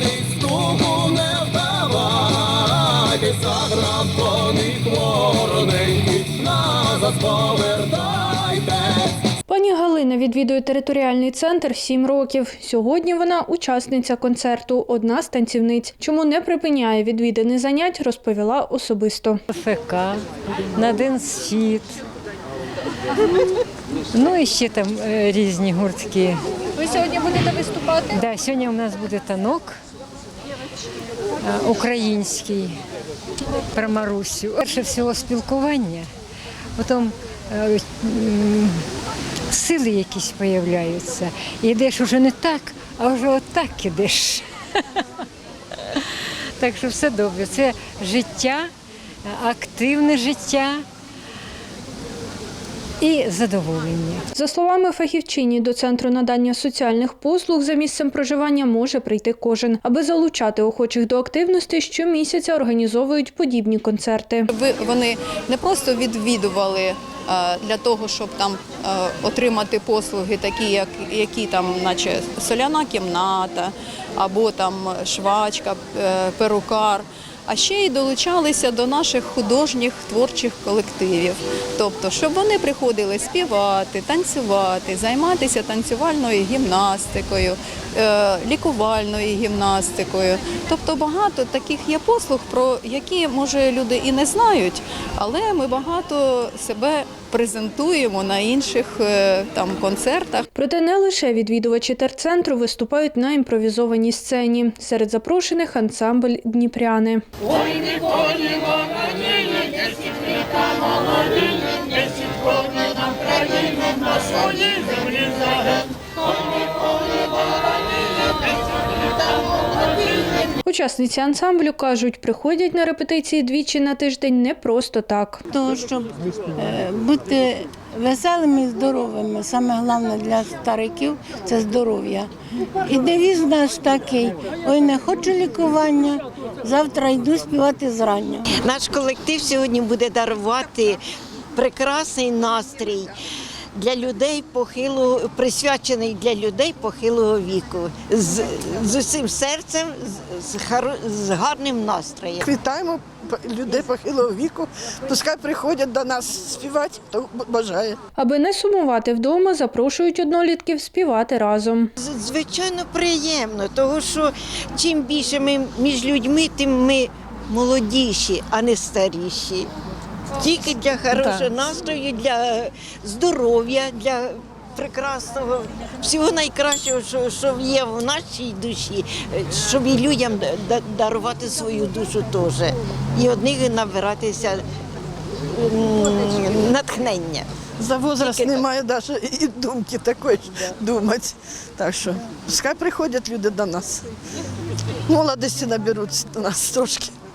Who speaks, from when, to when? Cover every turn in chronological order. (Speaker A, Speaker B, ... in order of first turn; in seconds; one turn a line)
Speaker A: 0.7-1.2
Speaker A: 3.7-4.5
Speaker A: 5.3-7.4
Speaker B: 9.5-19.4
Speaker C: 19.5-21.9
Speaker C: 24.1-29.8
Speaker C: 31.4-32.8
Speaker C: 33.7-36.1
Speaker C: 36.8-38.9
Speaker C: 39.5-44.5
Speaker C: 46.0-48.7
Speaker C: 49.2-50.8
Speaker C: 53.0-54.2
Speaker B: 54.3-64.5
Speaker A: 64.5-100.5
Speaker B: 100.5-107.2
Speaker B: 120.6-125.4
Speaker D: 125.5-132.3
Speaker D: 132.8-138.4
Speaker E: 138.6-141.0
Speaker E: 141.5-143.1
Speaker E: 143.8-152.4
Speaker F: 152.4-158.0
Speaker B: 158.2-161.9
Speaker E: 162.0-169.7
Speaker E: 170.4-184.6
Speaker F: 171.1-171.5
Speaker E: 185.5-187.5
Speaker F: 187.8-194.0
Speaker E: 188.2-188.6
Speaker F: 195.1-197.1